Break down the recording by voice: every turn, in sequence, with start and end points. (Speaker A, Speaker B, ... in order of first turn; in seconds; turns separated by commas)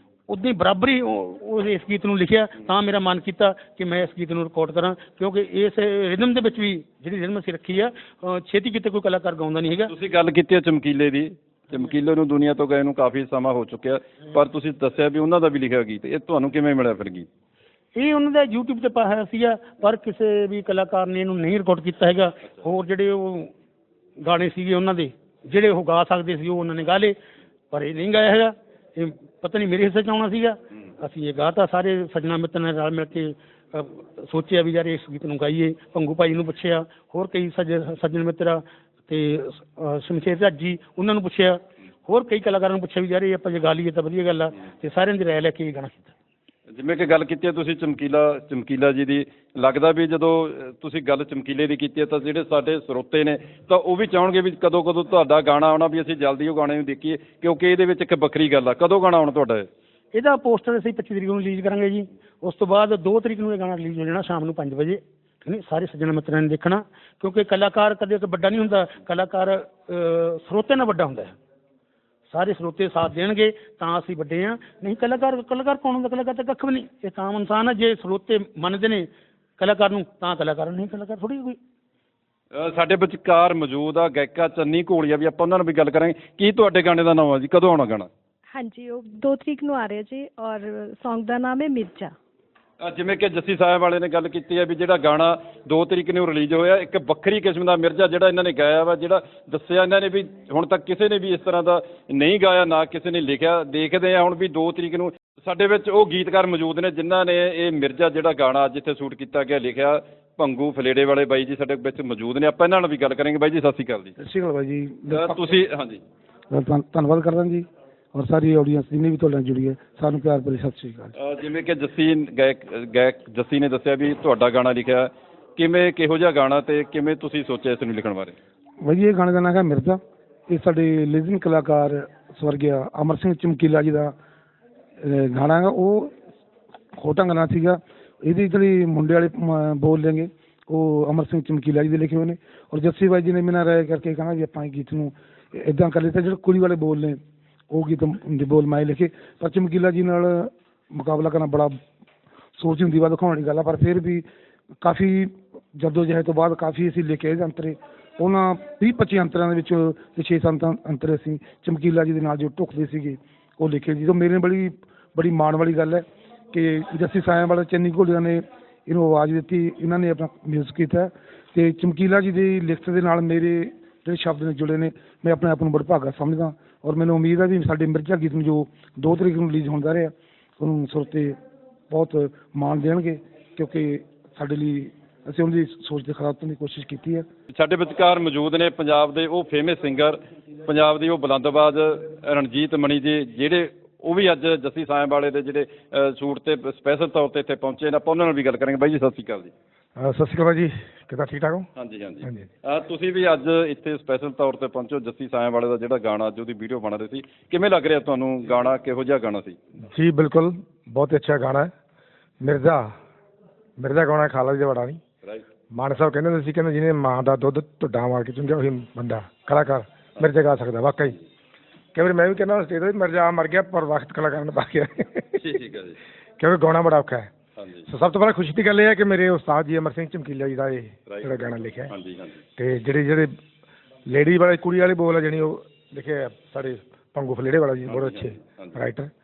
Speaker A: 0.3-9.9, Speaker B: 9.9-17.2, Speaker A: 17.9-23.5, Speaker A: 24.2-27.1, Speaker A: 27.7-46.1, Speaker B: 46.7-59.6, Speaker A: 60.1-71.3, Speaker A: 72.3-79.1, Speaker A: 79.6-81.6, Speaker B: 82.6-88.1, Speaker C: 88.5-92.1, Speaker B: 92.8-114.1, Speaker D: 114.2-115.4, Speaker B: 115.1-116.0, Speaker D: 116.5-121.1, Speaker B: 121.2-128.3, Speaker D: 128.8-134.1, Speaker D: 135.0-136.1, Speaker D: 136.9-147.2, Speaker D: 147.7-151.8, Speaker D: 152.6-154.2, Speaker D: 154.8-181.3, Speaker D: 181.9-187.2, Speaker B: 187.5-199.5, Speaker E: 199.9-201.7, Speaker B: 201.8-209.6, Speaker E: 209.9-211.7, Speaker E: 212.4-212.9, Speaker E: 213.8-215.0, Speaker E: 215.7-221.2, Speaker E: 221.9-225.3, Speaker B: 225.3-226.0, Speaker E: 226.4-227.3, Speaker B: 227.6-227.9, Speaker E: 227.9-231.9, Speaker B: 231.1-232.4, Speaker E: 232.6-233.3, Speaker E: 234.1-239.1, Speaker B: 237.9-238.8